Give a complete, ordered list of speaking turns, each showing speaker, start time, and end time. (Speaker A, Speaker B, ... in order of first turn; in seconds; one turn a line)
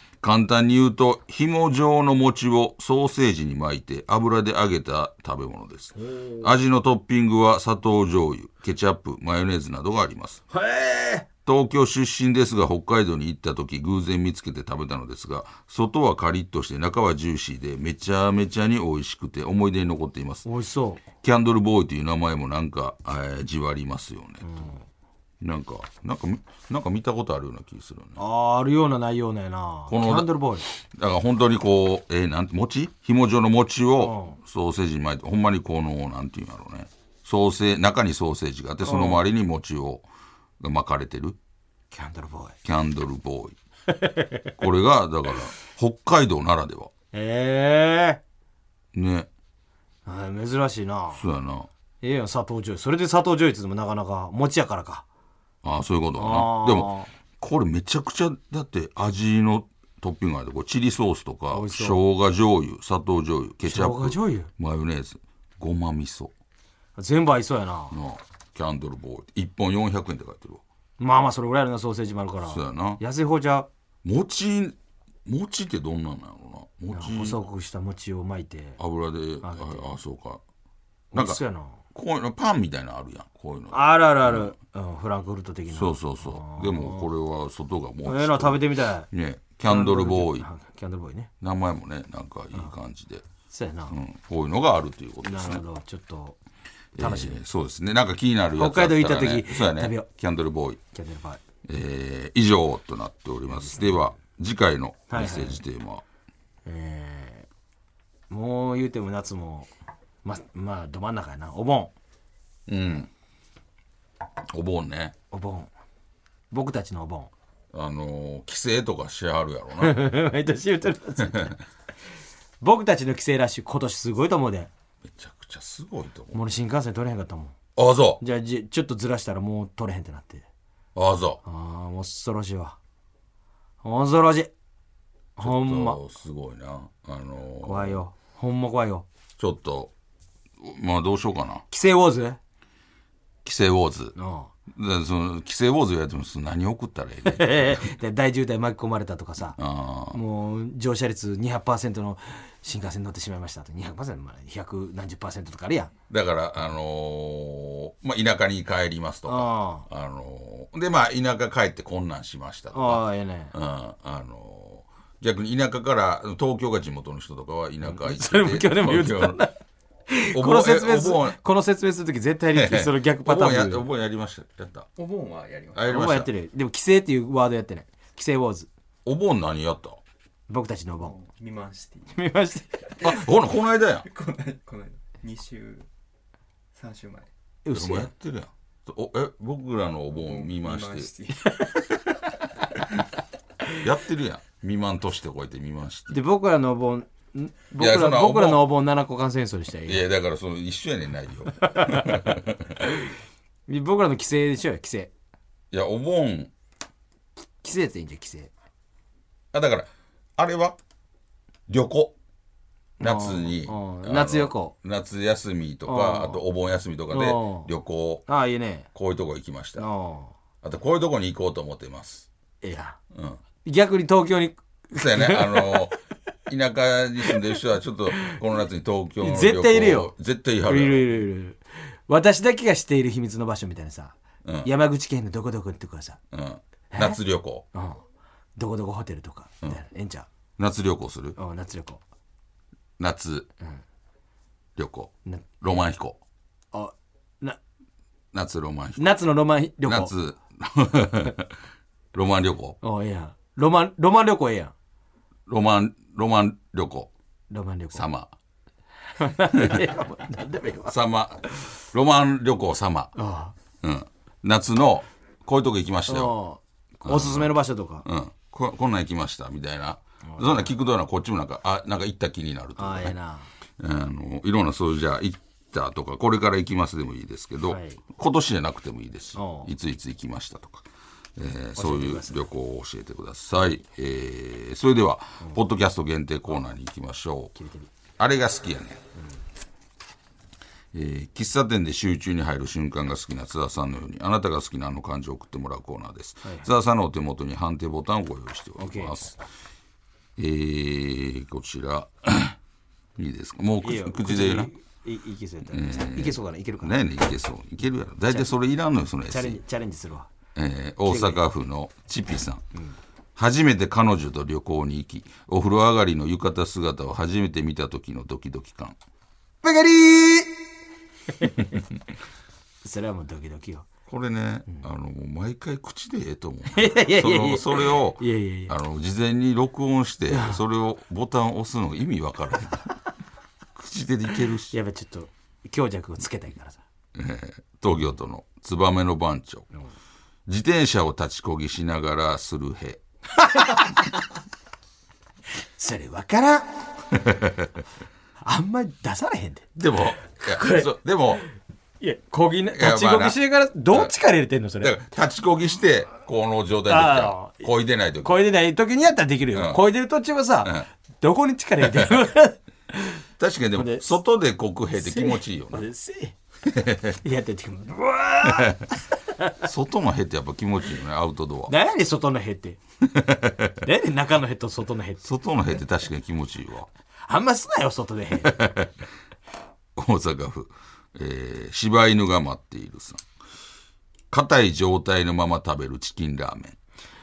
Speaker A: 0.2-10.4
Speaker B: 6.0-6.5
Speaker B: 10.5-11.3
Speaker A: 11.4-20.4
Speaker B: 20.4-21.0
Speaker A: 21.2-24.6
Speaker B: 24.4-24.8
Speaker A: 25.4-28.2
Speaker B: 28.2-30.6
Speaker A: 29.9-30.3
Speaker A: 30.9-40.1
Speaker B: 34.0-34.4
Speaker B: 38.8-39.2
Speaker A: 40.6-41.4
Speaker B: 41.9-42.6
Speaker A: 42.6-43.6
Speaker B: 43.9-44.5
Speaker A: 44.6-46.9
Speaker B: 47.1-48.2
Speaker A: 48.9-49.3
Speaker B: 50.0-51.2
Speaker A: 51.1-51.7
Speaker B: 52.0-55.0
Speaker A: 55.6-66.3
Speaker B: 56.1-57.1
Speaker B: 61.5-62.0
Speaker B: 63.6-64.5
Speaker B: 67.0-68.0
Speaker A: 67.9-70.6
Speaker B: 71.0-73.7
Speaker A: 72.4-73.0
Speaker A: 74.0-77.4
Speaker B: 76.9-78.8
Speaker A: 78.8-80.4
Speaker B: 79.4-79.9
Speaker A: 81.1-81.4
Speaker B: 81.1-81.8
Speaker A: 81.9-84.5
Speaker B: 83.7-87.1
Speaker A: 85.7-90.5
Speaker B: 88.0-89.1
Speaker B: 89.7-91.3
Speaker A: 91.4-93.2
Speaker B: 93.5-94.0
Speaker A: 93.9-95.6
Speaker B: 95.2-96.4
Speaker A: 97.0-100.8
Speaker B: 97.0-97.4
Speaker B: 98.5-100.1
Speaker B: 100.9-101.4
Speaker A: 101.6-106.0
Speaker B: 103.5-104.0
Speaker B: 105.1-105.6
Speaker B: 106.7-107.5
Speaker B: 108.3-109.7
Speaker B: 110.2-111.9
Speaker A: 112.7-113.1
Speaker A: 114.5-115.1
Speaker B: 115.3-115.7
Speaker B: 116.5-117.3
Speaker A: 117.7-120.0
Speaker B: 119.8-121.6
Speaker A: 121.2-121.5
Speaker B: 122.6-124.7
Speaker A: 125.0-126.4
Speaker B: 126.3-127.5
Speaker A: 127.8-128.2
Speaker B: 128.2-130.4
Speaker A: 130.9-131.4
Speaker B: 131.4-132.8
Speaker B: 133.8-134.5
Speaker B: 135.4-136.0
Speaker A: 135.4-138.0
Speaker B: 137.6-139.1
Speaker A: 139.4-139.9
Speaker A: 140.6-141.6
Speaker B: 141.7-142.4
Speaker A: 143.4-144.1
Speaker B: 144.2-144.5
Speaker A: 144.7-147.8
Speaker B: 147.2-149.6
Speaker A: 149.6-150.2
Speaker B: 150.1-155.9
Speaker A: 156.1-169.4
Speaker B: 159.3-159.9
Speaker B: 162.7-163.5
Speaker B: 167.8-169.6
Speaker B: 170.1-173.9
Speaker A: 170.3-171.4
Speaker A: 172.5-174.9
Speaker C: 175.0-175.9
Speaker A: 175.7-176.3
Speaker B: 175.9-178.7
Speaker A: 179.0-180.0
Speaker B: 180.5-181.2
Speaker C: 181.2-182.1
Speaker B: 182.1-182.9
Speaker A: 183.0-184.1
Speaker C: 184.0-185.9
Speaker C: 186.8-187.3
Speaker B: 187.6-188.1
Speaker A: 187.7-191.1
Speaker C: 190.4-191.7
Speaker B: 191.5-192.0
Speaker A: 193.8-196.2
Speaker B: 196.1-200.1
Speaker A: 197.8-198.6
Speaker A: 199.9-202.8
Speaker B: 201.6-202.4
Speaker B: 203.7-205.1
Speaker A: 205.7-206.5
Speaker B: 207.6-208.5
Speaker A: 209.5-210.8
Speaker A: 211.7-212.1
Speaker B: 213.0-214.7
Speaker A: 213.0-218.2
Speaker B: 215.9-216.4
Speaker B: 217.1-217.7
Speaker B: 218.3-218.9
Speaker A: 218.9-219.9
Speaker B: 219.8-220.3
Speaker A: 220.6-222.3
Speaker B: 222.6-223.0
Speaker A: 223.1-223.4
Speaker B: 223.6-225.9
Speaker A: 224.9-231.2
Speaker B: 229.2-230.1
Speaker B: 230.7-236.2
Speaker A: 234.4-234.7
Speaker A: 236.3-237.7
Speaker B: 236.9-237.2
Speaker B: 237.7-238.0
Speaker B: 238.6-240.3
Speaker A: 240.6-241.4
Speaker B: 241.4-242.0
Speaker A: 243.0-243.5
Speaker A: 244.8-246.2
Speaker B: 245.2-245.5
Speaker B: 246.7-247.6
Speaker A: 248.3-249.2
Speaker B: 249.0-250.1
Speaker A: 249.8-251.5
Speaker A: 252.1-252.8
Speaker B: 252.8-254.7
Speaker A: 255.5-257.1
Speaker B: 257.5-258.1
Speaker A: 257.9-258.3
Speaker B: 259.2-260.9
Speaker A: 259.5-259.9
Speaker A: 260.9-263.1
Speaker B: 263.1-263.5
Speaker A: 263.8-266.4
Speaker B: 266.1-268.0
Speaker A: 267.0-273.1
Speaker B: 270.3-270.7
Speaker B: 272.8-273.5
Speaker A: 273.8-280.9
Speaker B: 277.7-278.0
Speaker B: 279.4-279.7
Speaker A: 281.4-287.5
Speaker B: 281.8-282.5
Speaker B: 287.5-287.9
Speaker A: 288.2-289.0
Speaker A: 290.9-299.4
Speaker B: 296.4-296.7
Speaker B: 298.8-299.2
Speaker A: 300.4-302.6
Speaker A: 303.2-304.7
Speaker B: 303.8-306.9
Speaker A: 305.7-309.6
Speaker B: 309.3-310.3
Speaker A: 310.5-312.6
Speaker B: 311.1-311.4
Speaker A: 313.4-319.0
Speaker B: 319.6-320.5
Speaker B: 321.4-321.8
Speaker B: 322.8-323.9
Speaker A: 324.1-332.9
Speaker B: 326.7-328.7
Speaker B: 330.3-330.6
Speaker A: 333.8-334.8
Speaker B: 334.7-336.8
Speaker A: 337.1-339.7
Speaker A: 340.5-343.0
Speaker B: 343.4-344.1
Speaker B: 345.8-346.8
Speaker A: 347.1-347.7
Speaker B: 348.4-349.7
Speaker A: 349.8-351.4
Speaker B: 350.4-350.9
Speaker B: 352.0-355.0
Speaker A: 352.7-353.4
Speaker A: 354.8-358.4
Speaker B: 356.9-357.7
Speaker B: 358.2-363.2
Speaker A: 359.5-359.8
Speaker A: 361.8-362.1
Speaker A: 363.4-365.9
Speaker B: 363.8-364.1
Speaker B: 364.9-366.3
Speaker A: 366.6-367.2
Speaker B: 367.2-369.6
Speaker A: 368.4-368.9
Speaker A: 369.6-371.7
Speaker B: 371.7-372.8
Speaker A: 373.1-373.7
Speaker B: 373.8-375.2
Speaker A: 375.2-376.9
Speaker B: 377.2-378.6
Speaker A: 378.4-378.9
Speaker A: 380.0-383.2
Speaker A: 384.3-386.8